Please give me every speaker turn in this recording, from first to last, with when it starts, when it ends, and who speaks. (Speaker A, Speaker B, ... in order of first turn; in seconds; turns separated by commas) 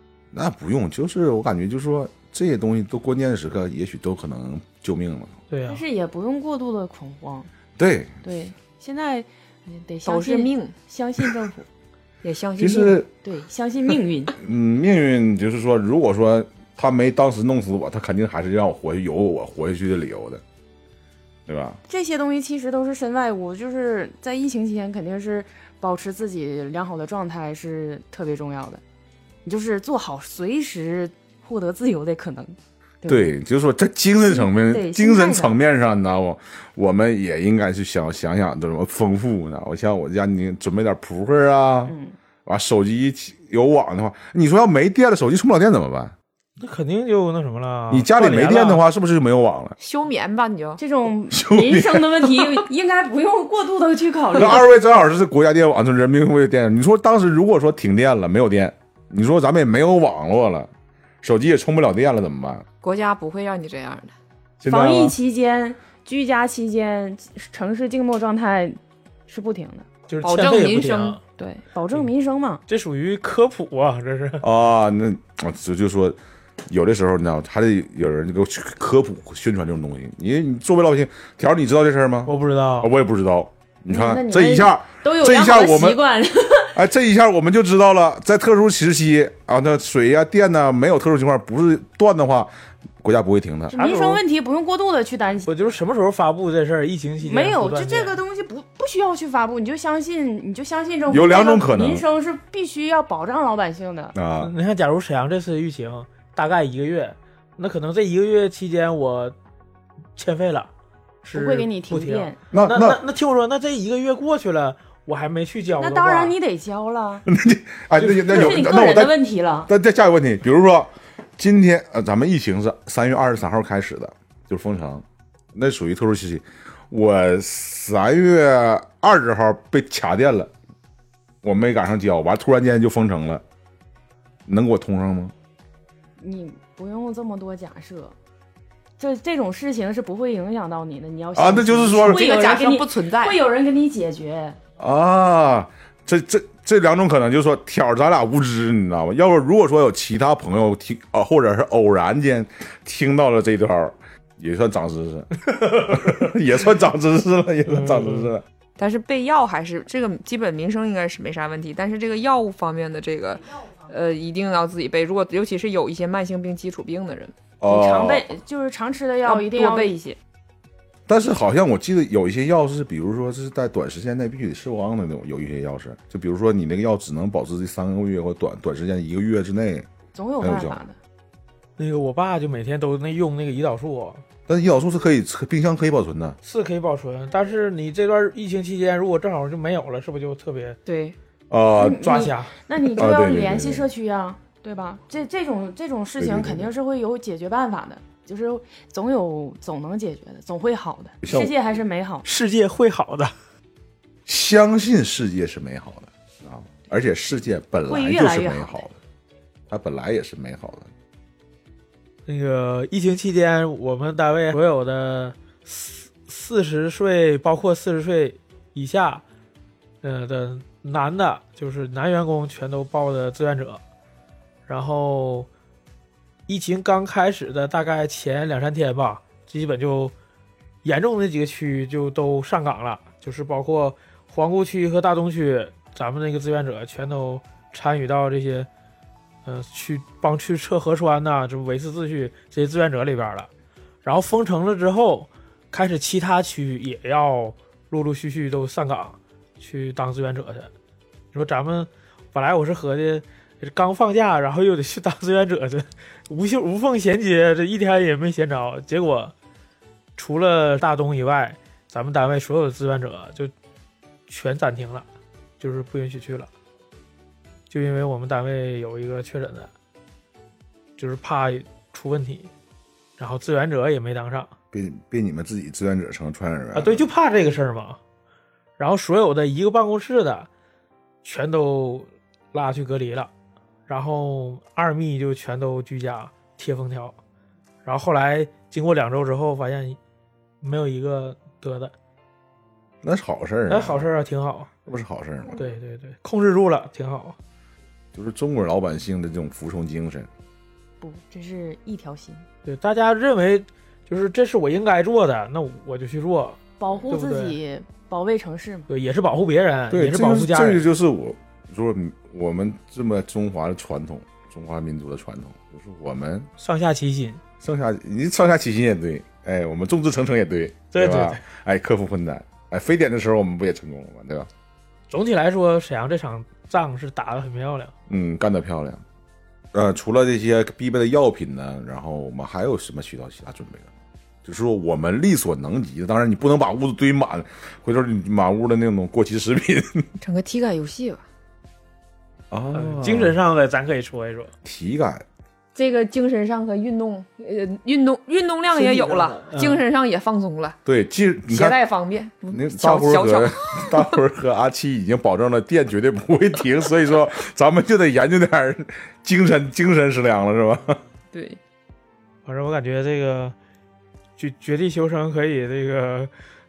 Speaker A: 0.3-5.4, Speaker B: 5.5-5.8, Speaker C: 5.7-7.5, Speaker A: 7.8-8.2, Speaker C: 8.2-11.7, Speaker D: 10.1-10.7, Speaker D: 12.2-13.0, Speaker A: 12.6-13.1, Speaker C: 13.2-14.4, Speaker A: 14.4-20.4, Speaker A: 21.5-21.8, Speaker C: 21.9-28.8, Speaker C: 29.4-33.3, Speaker A: 33.1-41.9, Speaker C: 34.2-35.6, Speaker C: 41.9-42.1, Speaker A: 42.5-46.1, Speaker B: 46.6-48.8, Speaker A: 47.9-49.8, Speaker D: 49.8-50.8, Speaker C: 50.8-54.7, Speaker A: 51.3-52.4, Speaker A: 54.3-60.7, Speaker A: 61.2-62.7, Speaker D: 62.8-64.1, Speaker A: 64.6-65.2, Speaker C: 64.7-69.9, Speaker B: 70.1-71.2, Speaker D: 70.2-71.2, Speaker C: 71.4-72.6, Speaker B: 72.7-74.5, Speaker A: 74.4-86.0, Speaker B: 82.3-82.9, Speaker C: 83.9-86.8, Speaker A: 86.7-93.8, Speaker C: 93.7-95.6, Speaker B: 93.7-94.2, Speaker B: 95.5-98.2, Speaker C: 97.2-104.2, Speaker A: 101.1-102.0, Speaker A: 104.2-104.5, Speaker B: 104.4-109.3, Speaker B: 110.2-110.7, Speaker B: 111.2-116.3, Speaker C: 111.3-112.4, Speaker A: 112.5-113.0, Speaker C: 115.8-117.3, Speaker A: 117.3-119.2, Speaker B: 118.0-118.5, Speaker C: 118.2-119.7, Speaker A: 119.7-130.5, Speaker A: 131.4-133.4, Speaker A: 134.5-135.3, Speaker C: 136.2-138.2, Speaker C: 139.0-144.6, Speaker A: 141.3-142.2, Speaker D: 142.0-143.4, Speaker A: 144.8-158.4, Speaker B: 157.7-158.3, Speaker D: 158.8-167.4, Speaker A: 167.6-168.3, Speaker C: 167.6-170.1, Speaker D: 169.2-170.2, Speaker A: 171.1-180.8, Speaker C: 180.1-180.9, Speaker B: 181.8-184.2, Speaker A: 184.5-186.4, Speaker B: 186.4-190.8, Speaker D: 190.9-191.2, Speaker A: 191.5-192.2, Speaker C: 191.8-202.2, Speaker B: 192.0-192.6, Speaker A: 193.0-193.9, Speaker A: 196.2-196.7, Speaker A: 201.2-201.5, Speaker B: 202.2-203.3, Speaker A: 204.3-209.0, Speaker C: 207.9-208.9, Speaker A: 209.7-210.9, Speaker B: 212.3-219.2, Speaker B: 220.0-223.8, Speaker B: 224.7-225.5, Speaker B: 226.5-230.1, Speaker B: 230.8-238.7, Speaker B: 239.4-243.5, Speaker B: 244.0-250.7, Speaker B: 251.3-259.3, Speaker B: 260.2-263.5, Speaker B: 264.3-265.1, Speaker B: 265.6-266.5, Speaker B: 267.7-269.7, Speaker B: 271.0-272.5, Speaker B: 273.2-274.5, Speaker A: 274.7-277.1, Speaker B: 276.7-278.0, Speaker B: 278.8-280.5, Speaker B: 281.2-283.3, Speaker B: 283.9-287.2, Speaker B: 287.9-290.0, Speaker B: 290.6-291.9, Speaker A: 293.0-294.1, Speaker B: 293.7-294.7, Speaker A: 294.9-295.6, Speaker B: 295.5-297.4, Speaker A: 298.1-300.3, Speaker C: 301.0-302.5, Speaker B: 302.6-307.6, Speaker C: 306.8-308.9, Speaker B: 308.9-310.8, Speaker A: 309.9-316.5, Speaker B: 316.6-317.4, Speaker A: 317.6-324.5, Speaker B: 320.9-321.4, Speaker B: 325.1-327.9, Speaker A: 328.1-329.0, Speaker A: 329.7-333.9, Speaker A: 334.4-340.1, Speaker D: 340.2-341.2, Speaker A: 342.5-343.4, Speaker B: 342.7-344.5, Speaker A: 344.6-345.2, Speaker D: 345.8-350.8, Speaker B: 348.8-349.8, Speaker C: 349.0-349.4, Speaker A: 350.9-351.8, Speaker D: 351.5-354.0, Speaker A: 352.5-361.0, Speaker D: 361.3-361.6, Speaker B: 362.5-363.6, Speaker B: 364.4-366.3